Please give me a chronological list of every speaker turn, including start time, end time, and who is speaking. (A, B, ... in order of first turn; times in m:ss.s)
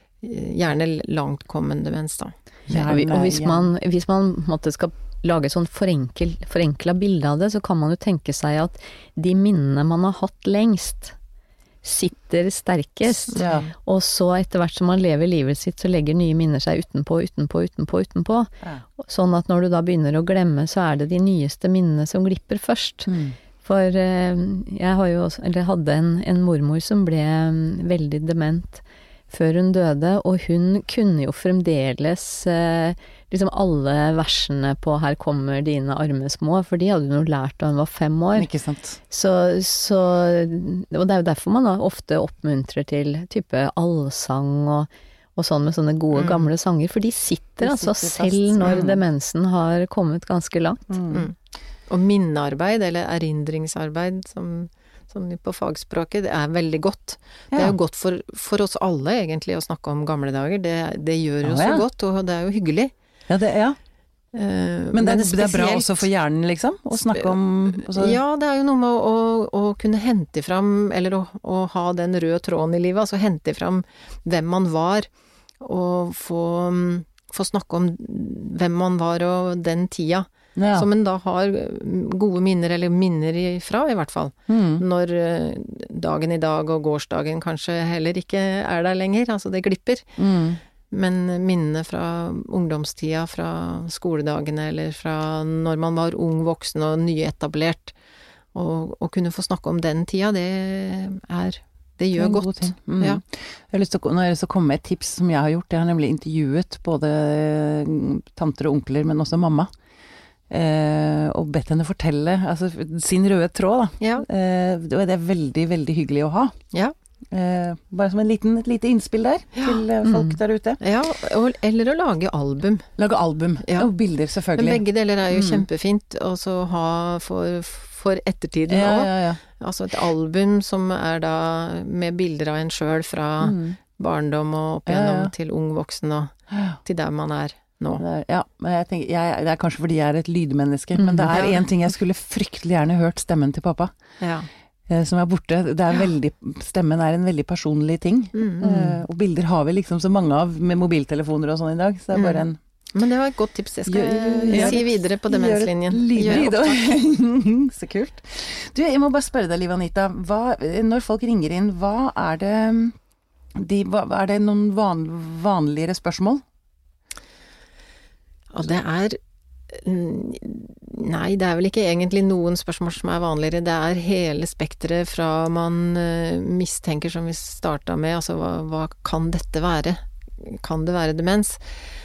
0:00.2-0:02.3 A
0:02.7-0:03.7 B
0:02.7-0:11.2 C
0:11.8-0:38.5 C
0:13.3-0:13.7 A
0:13.4-0:13.6 B
0:23.1-0:23.4 B
0:38.4-0:39.0 B
0:39.1-0:50.9 C
0:46.1-0:46.5 A
0:47.6-0:49.0 B
0:50.9-0:51.2 B
0:51.1-0:51.4 A
0:51.9-1:02.9 A
1:01.4-1:01.8 B
1:03.3-1:03.8 B
1:04.3-1:06.1 A
1:04.9-1:08.2 B
1:07.1-1:15.1 A
1:15.6-1:30.2 A
1:20.6-1:20.9 B
1:24.5-1:24.8 B
1:30.2-1:30.6 B
1:30.9-1:37.9 A
1:38.5-1:43.2 A
1:42.2-1:49.7 B
1:50.5-1:56.6 B
1:54.0-1:54.2 A
1:57.3-2:00.8 B
1:59.5-1:59.8 A
2:00.0-2:00.4 C
2:00.8-2:02.9 A
2:03.0-2:05.6 B
2:03.6-2:03.9 A
2:04.5-2:16.3 A
2:08.7-2:09.4 B
2:13.4-2:13.8 B
2:14.9-2:15.3 B
2:16.5-2:16.8 B
2:16.8-2:18.0 A
2:18.0-2:23.9 B
2:21.0-2:21.6 A
2:24.2-2:24.5 A
2:24.9-2:32.6 B
2:28.3-2:29.0 A
2:32.1-2:36.9 A
2:33.8-2:43.0 B
2:43.5-2:46.4 B
2:48.5-2:49.2 A
2:49.7-3:01.7 A